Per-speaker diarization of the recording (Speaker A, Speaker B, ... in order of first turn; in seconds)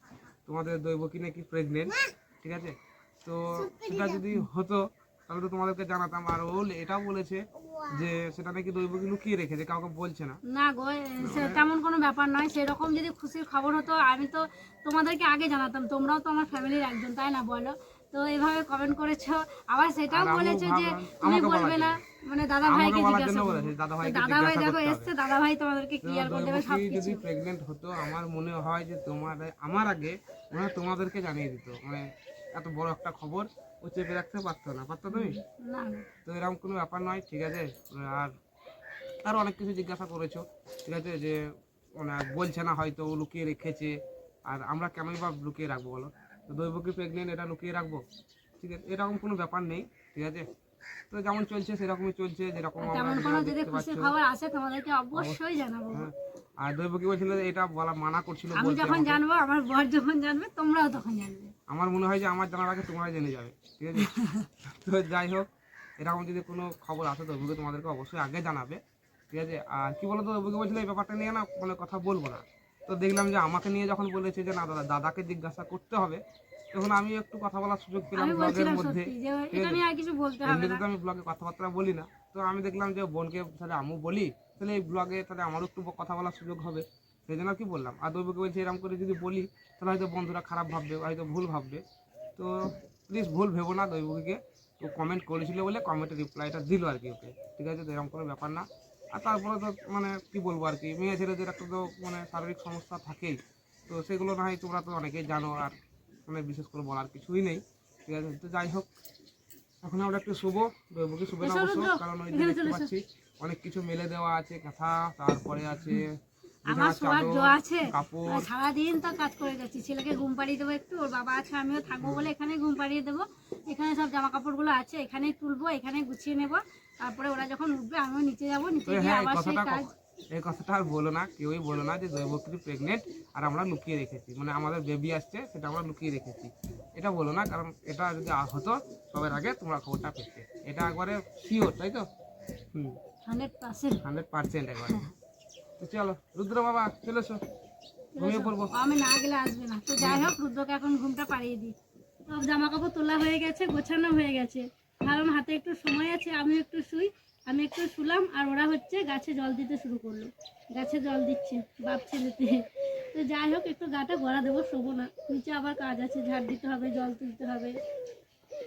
Speaker A: 0.5-10.4, 11.2-11.6, 20.1-22.0, 22.6-25.1, 26.0-35.4, 36.3-38.3, 39.2-41.4, 42.0-44.0, 44.5-48.0, 48.6-50.5, 51.1-54.1, 55.1-55.4, 55.9-59.2, 61.7-65.5, 66.0-76.2, 76.7-79.8, 80.4-91.8, 92.4-108.9, 109.8-116.1, 116.7-118.5, 122.0-122.3, 128.9-142.1, 144.0-145.1, 145.8-147.4, 148.2-148.8, 150.0-150.3
Speaker B: 3.7-4.2, 10.5-27.2, 35.1-36.0, 52.8-56.1, 58.5-61.5, 64.0-64.5, 78.2-80.8, 111.4-112.9, 116.7-129.9, 143.3-144.0, 148.2-151.8, 152.3-167.8